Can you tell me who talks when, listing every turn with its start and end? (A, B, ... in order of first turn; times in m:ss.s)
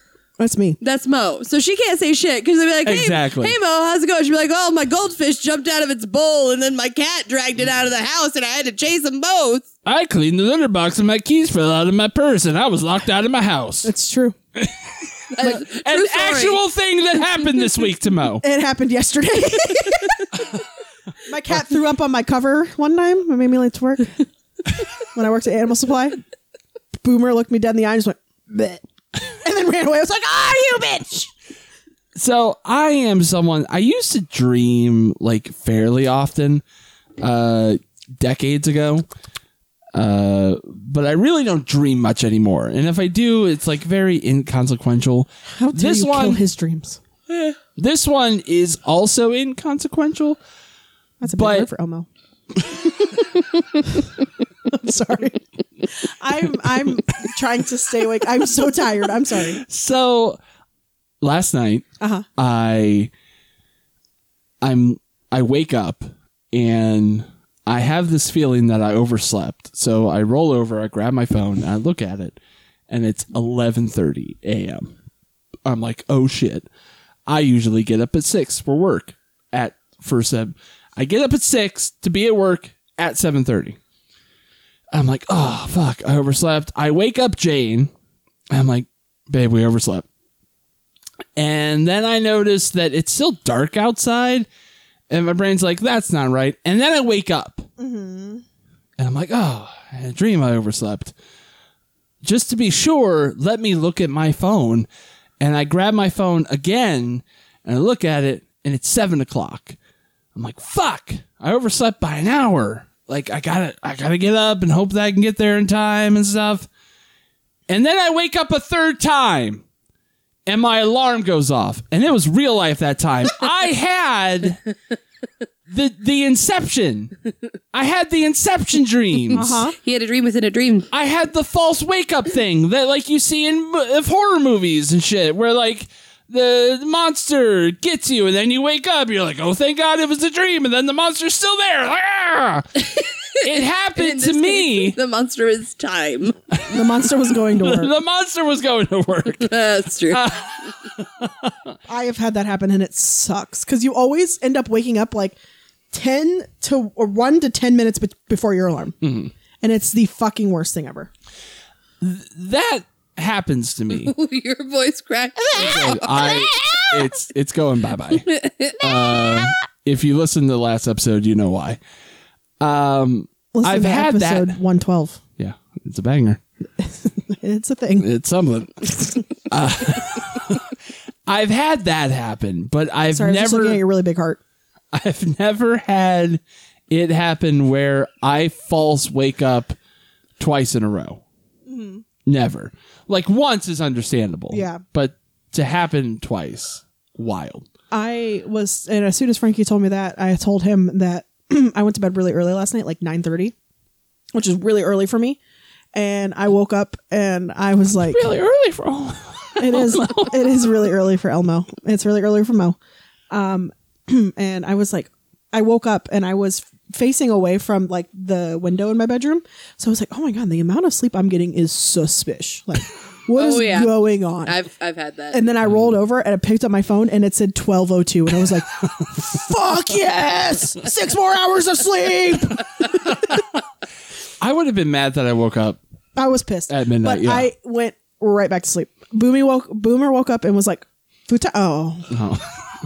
0:00.4-0:00.8 A
0:00.8-0:09.7 B
0:02.8-0:03.6 C
0:09.8-0:13.9 C
0:13.8-0:14.4 A
0:14.6-0:18.4 C
0:15.3-0:16.6 B
0:18.4-0:20.5 A
0:21.2-0:24.2 A
0:25.2-0:26.2 A
0:27.0-0:31.3 A
0:32.2-0:36.6 C
0:37.2-0:39.0 C
0:39.9-0:46.4 C
0:45.5-0:47.0 A
0:47.8-0:50.4 C
0:51.2-0:52.1 A
0:51.3-0:51.7 C
0:54.7-0:55.4 A
0:55.9-0:59.6 A
0:59.4-1:00.4 C
1:01.2-1:03.1 C
1:02.0-1:02.2 A
1:04.6-1:12.4 C
1:12.9-1:14.9 C
1:15.6-1:16.7 C
1:17.3-1:23.8 C
1:24.9-1:27.9 C
1:28.5-1:30.1 C
1:31.4-1:34.5 C
1:35.1-1:37.7 C
1:37.8-1:38.4 A
1:39.0-1:41.1 C
1:42.2-1:44.9 C
1:45.4-1:49.8 C
1:50.4-1:56.7 C
1:57.7-1:59.6 C
2:00.5-2:04.6 C
2:05.7-2:07.1 C
2:07.7-2:09.6 C
2:09.3-2:09.8 A
2:09.3-2:10.9 B
2:10.9-2:22.9 C
2:22.9-2:26.4 B
2:23.4-2:25.0 C
2:26.6-2:31.7 C
2:26.7-2:27.9 A
2:29.3-2:30.7 B
2:31.9-2:35.4 A
2:35.9-2:39.0 A
2:39.0-2:39.3 C
2:39.6-2:41.1 A
2:42.0-2:44.1 C
2:43.9-2:47.0 B
2:45.5-2:48.3 C
2:48.3-2:49.5 B
2:48.8-2:51.8 C
2:52.6-2:54.6 C
2:53.5-2:55.2 A
2:55.4-2:56.4 C
2:56.8-2:58.1 A
2:58.0-3:03.8 C
3:03.1-3:04.4 A
3:04.9-3:09.8 C
3:10.4-3:11.2 C
3:11.7-3:12.0 A
3:12.2-3:17.7 C
3:14.5-3:14.8 A
3:17.9-3:23.5 A
3:24.3-3:25.4 A
3:25.9-3:28.3 A
3:28.1-3:30.7 C
3:29.6-3:32.8 A
3:33.3-3:44.5 A
3:43.4-3:45.4 B
3:45.3-3:53.4 A
3:45.6-3:45.9 C
3:54.4-3:55.8 C
3:56.2-4:02.2 A
3:56.7-3:57.5 C
4:02.1-4:02.5 C